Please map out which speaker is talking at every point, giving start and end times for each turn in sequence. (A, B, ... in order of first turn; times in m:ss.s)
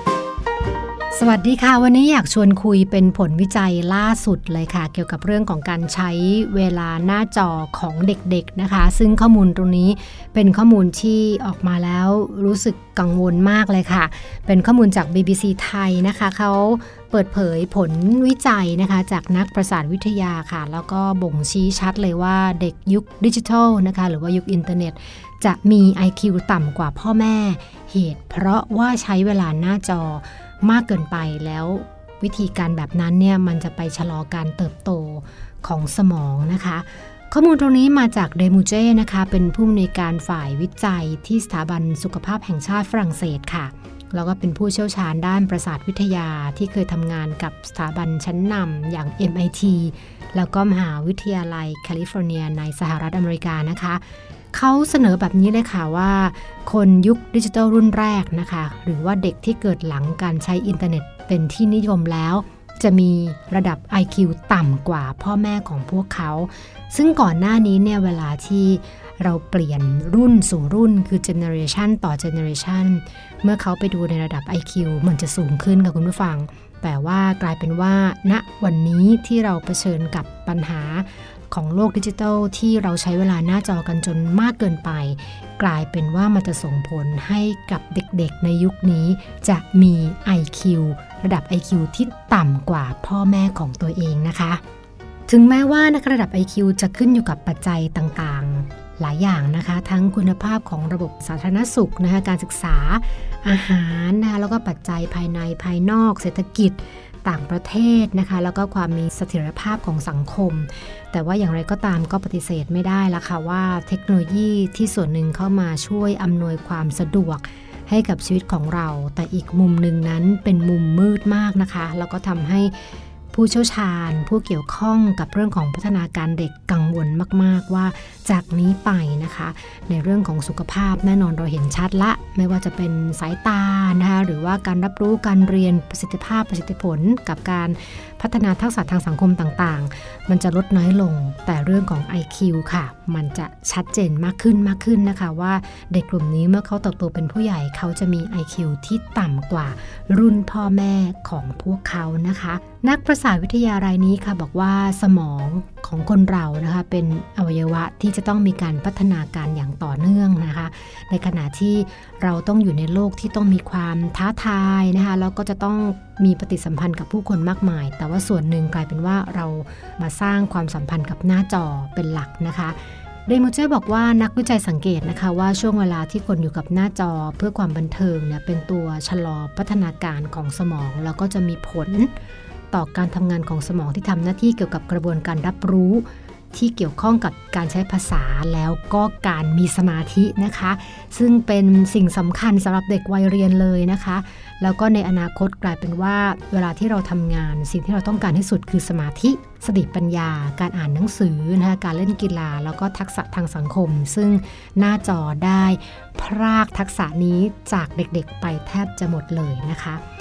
0:01.1-0:54.0 A
0:54.5-1:34.6 A
1:35.3-2:02.7 A
2:03.3-3:02.1 A
3:02.7-3:30.0 A